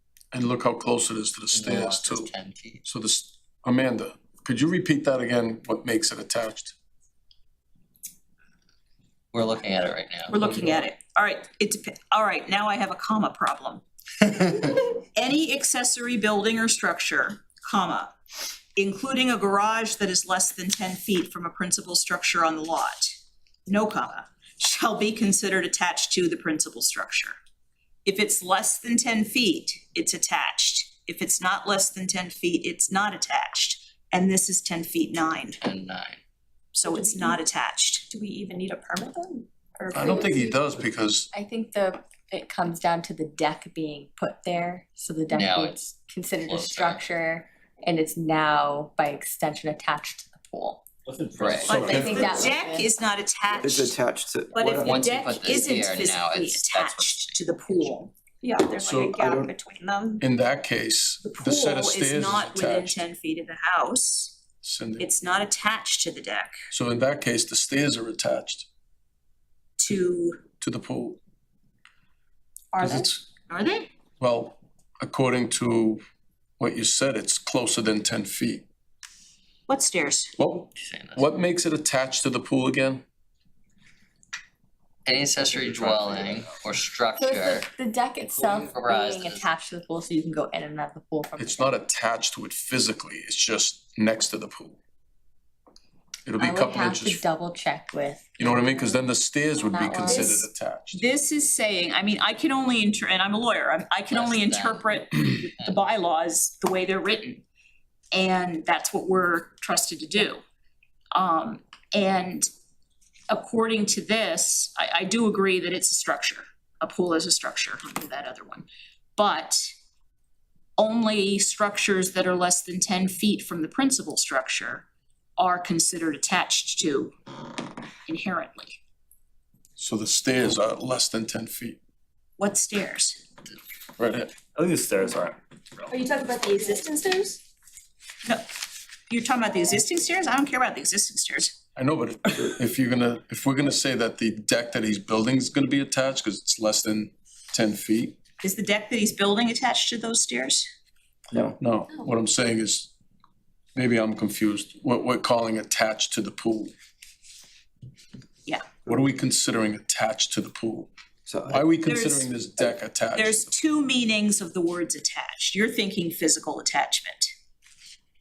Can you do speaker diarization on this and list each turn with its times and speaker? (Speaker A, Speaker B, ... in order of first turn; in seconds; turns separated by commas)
Speaker A: 0.3-6.8, Speaker B: 1.5-2.8, Speaker B: 9.3-10.6, Speaker C: 10.3-13.8, Speaker C: 14.9-18.1, Speaker C: 18.8-23.1, Speaker C: 23.7-27.4, Speaker C: 28.1-35.6, Speaker B: 35.6-36.2, Speaker C: 36.8-38.1, Speaker D: 36.9-37.4, Speaker D: 38.1-40.6, Speaker A: 39.9-41.3, Speaker E: 41.3-50.8, Speaker B: 45.3-45.9, Speaker B: 46.4-47.0, Speaker F: 51.1-52.5, Speaker B: 51.4-51.9, Speaker C: 51.7-54.0, Speaker E: 51.7-52.9, Speaker A: 52.0-52.3, Speaker G: 53.5-55.3, Speaker C: 54.5-58.1, Speaker B: 54.8-58.0, Speaker D: 58.4-60.2, Speaker A: 58.8-59.2, Speaker G: 59.1-59.5, Speaker A: 60.2-63.0, Speaker C: 61.2-64.4, Speaker A: 64.6-65.1, Speaker C: 65.0-66.5, Speaker A: 66.7-68.7, Speaker C: 69.8-70.4, Speaker A: 70.6-71.2, Speaker C: 72.8-73.9, Speaker A: 72.8-73.2, Speaker A: 74.2-76.0, Speaker A: 76.6-78.7, Speaker C: 79.7-80.3, Speaker A: 80.4-83.0, Speaker B: 80.8-81.3, Speaker B: 85.1-87.7, Speaker A: 85.4-86.6, Speaker E: 87.2-91.8, Speaker B: 88.4-89.5, Speaker A: 91.4-94.8, Speaker A: 96.3-97.2, Speaker E: 96.4-99.0, Speaker A: 98.4-101.0, Speaker E: 99.7-100.5, Speaker C: 100.1-100.4, Speaker C: 100.9-107.4, Speaker B: 104.1-104.9, Speaker C: 108.1-110.4, Speaker C: 111.1-112.5, Speaker C: 113.3-119.7, Speaker C: 120.8-124.9, Speaker C: 125.4-127.2, Speaker C: 128.1-128.8, Speaker A: 129.8-131.8, Speaker C: 132.4-133.2, Speaker A: 134.0-134.4, Speaker F: 134.5-135.9, Speaker D: 135.9-137.4, Speaker C: 139.1-141.6, Speaker A: 141.8-148.2, Speaker C: 148.4-150.7, Speaker G: 151.3-151.6, Speaker A: 151.6-152.9, Speaker A: 153.8-156.7, Speaker A: 158.9-160.9, Speaker G: 161.3-161.7, Speaker A: 161.5-163.6, Speaker C: 161.8-162.3, Speaker C: 163.1-167.3